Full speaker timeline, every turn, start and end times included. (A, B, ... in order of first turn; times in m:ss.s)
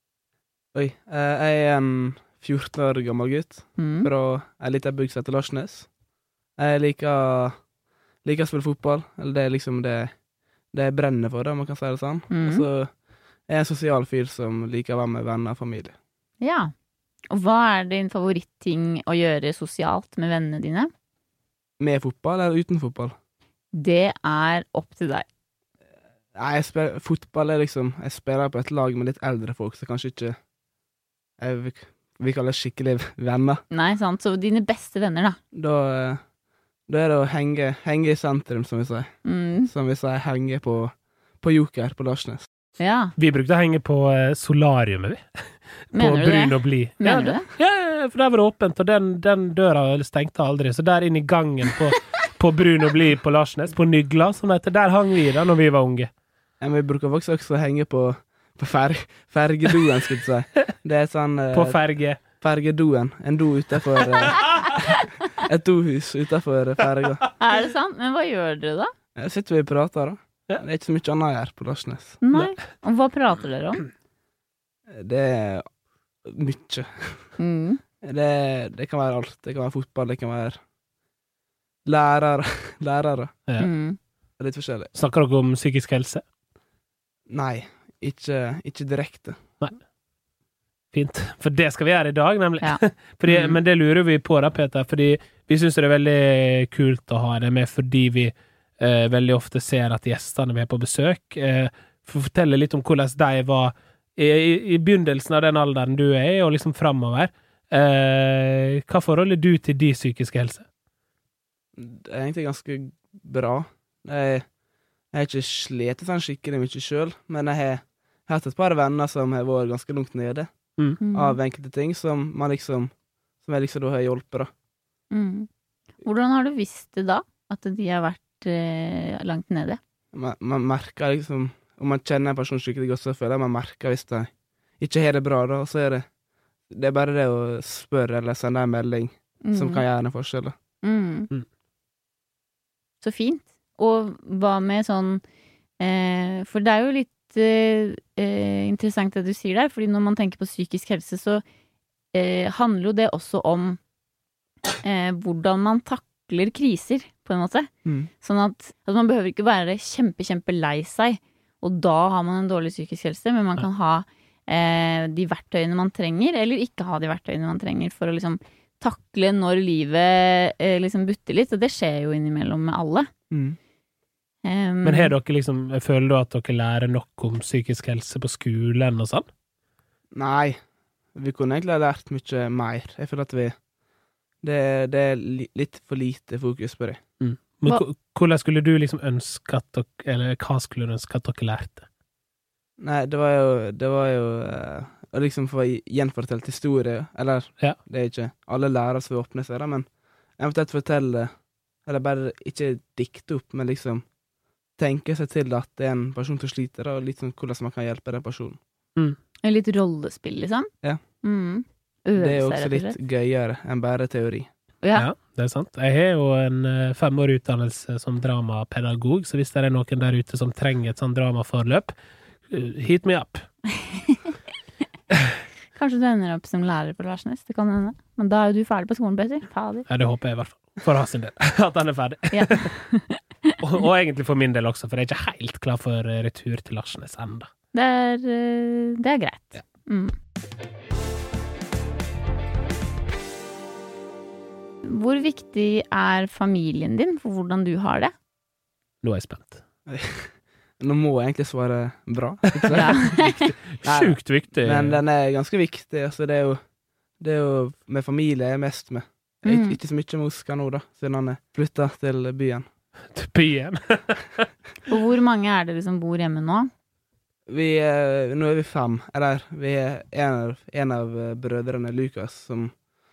0:00.7-0:05.9 A
0:03.8-0:04.1 B
0:06.6-0:07.5 A
0:08.2-0:10.1 A
0:10.7-0:12.9 A
0:12.3-0:12.6 B
0:13.5-0:15.9 A
0:16.4-0:16.7 B
0:17.3-0:20.9 B
0:21.8-0:23.1 A
0:23.7-0:25.2 B
0:26.3-0:30.4 A
0:31.4-0:33.6 A
0:33.7-0:35.4 B
0:35.5-0:36.2 A
0:36.9-0:39.1 A
0:39.2-0:39.7 B
0:39.6-0:42.5 A
0:42.8-0:43.1 B
0:43.2-0:45.2 C
0:45.9-0:56.1 C
0:45.9-0:47.5 B
0:56.6-1:04.7 A
1:01.5-1:02.2 C
1:04.2-1:04.5 C
1:05.4-1:07.2 A
1:07.4-1:08.9 B
1:09.2-1:12.2 A
1:12.2-1:13.8 B
1:14.9-1:15.6 A
1:16.2-1:17.3 A
1:17.4-1:17.8 B
1:18.0-1:20.6 A
1:21.8-1:23.3 A
1:23.6-1:24.0 B
1:24.4-1:24.9 A
1:24.9-1:26.2 C
1:27.3-1:29.5 A
1:30.9-1:50.6 C
1:32.6-1:33.6 B
1:51.8-1:54.4 A
1:55.1-2:00.5 A
2:01.0-2:01.4 B
2:01.1-2:02.9 A
2:03.4-2:04.5 A
2:05.1-2:05.5 B
2:06.0-2:09.8 B
2:10.1-2:16.0 A
2:16.7-2:20.5 A
2:19.4-2:19.8 B
2:20.8-2:21.3 B
2:23.0-2:25.2 B
2:25.8-2:31.4 B
2:32.1-2:33.8 B
2:34.8-2:37.7 B
2:37.8-2:38.1 A
2:38.2-2:53.1 B
2:53.3-2:53.6 A
2:54.4-2:55.1 B
2:54.8-2:59.2 C
3:00.1-3:00.6 A
3:01.1-3:03.5 A
3:04.4-3:07.0 A
3:07.2-3:11.8 C
3:12.8-3:19.8 A
3:20.4-3:21.3 A
3:21.8-3:24.0 A
3:24.8-3:28.6 A
3:29.4-3:30.7 B
3:31.2-3:33.0 B
3:32.2-3:34.5 A
3:34.8-3:35.1 B
3:34.9-3:41.9 C
3:42.5-3:43.4 C
3:43.8-3:44.3 B
3:45.7-3:49.9 B
3:49.9-3:52.7 C
3:52.3-3:53.6 B
3:53.6-3:57.5 C
3:57.7-4:00.1 B
4:04.8-4:08.1 B
4:09.0-4:09.6 C
4:09.9-4:13.3 A
4:12.5-4:15.0 C
4:12.7-4:13.5 B
4:13.8-4:16.6 A
4:17.2-4:22.6 A
4:19.4-4:19.8 B
4:23.1-4:24.5 C
4:24.9-4:26.7 B
4:27.5-4:32.7 A